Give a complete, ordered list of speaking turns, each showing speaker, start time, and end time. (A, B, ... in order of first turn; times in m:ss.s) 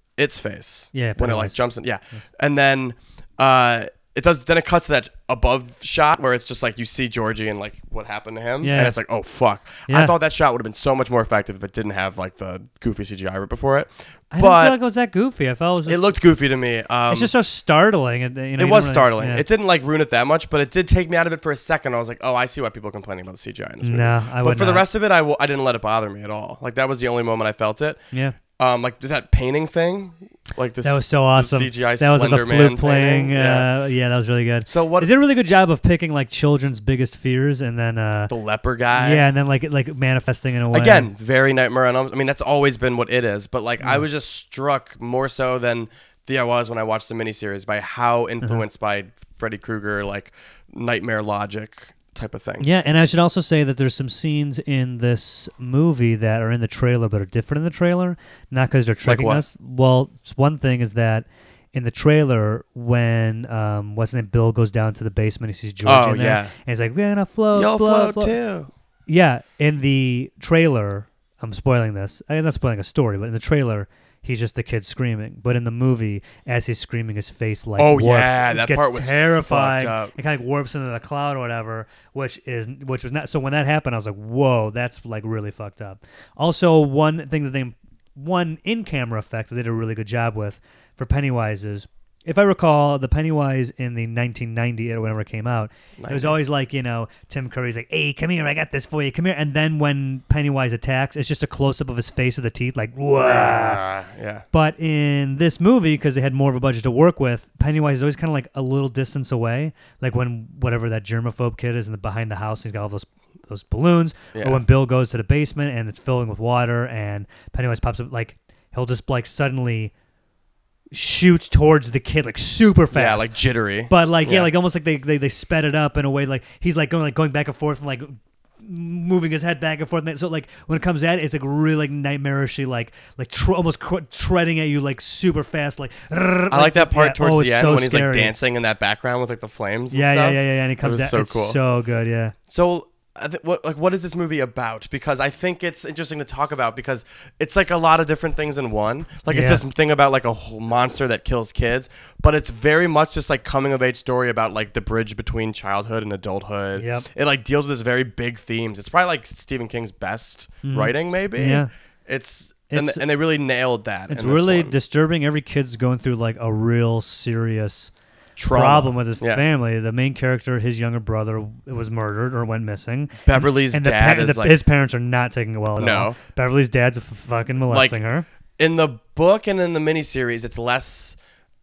0:00.2-0:14.8 A
0:00.9-0:01.6 B
0:08.6-0:09.0 B
0:09.9-0:10.1 B
0:14.3-0:16.1 B
0:15.9-0:17.3 A
0:17.1-0:19.4 B
0:18.6-0:28.0 A
0:23.8-0:24.8 B
0:28.1-0:28.4 B
0:28.5-0:33.7 A
0:30.8-0:38.3 B
0:34.7-0:35.1 A
0:38.3-0:39.2 A
0:38.9-0:41.1 B
0:40.7-0:52.7 A
0:52.6-1:08.4 B
0:59.0-0:59.4 A
1:05.8-1:06.5 A
1:07.5-1:08.7 A
1:09.1-1:43.9 B
1:17.8-1:20.2 A
1:36.0-1:36.4 A
1:43.2-1:44.4 A
1:44.5-1:59.9 B
1:54.3-1:54.6 A
2:00.9-2:03.3 B
2:02.9-2:04.5 A
2:03.9-2:18.3 B
2:16.5-2:21.6 A
2:19.9-2:22.4 B
2:22.5-2:44.7 A
2:29.3-2:29.6 B
2:36.8-2:37.1 B
2:40.6-2:41.7 B
2:42.7-2:43.0 B
2:44.1-2:47.9 B
2:48.4-2:49.4 A
2:48.5-2:58.2 B
2:53.2-2:54.6 A
2:55.8-2:56.2 A
2:57.7-2:58.0 A
2:58.6-3:01.2 A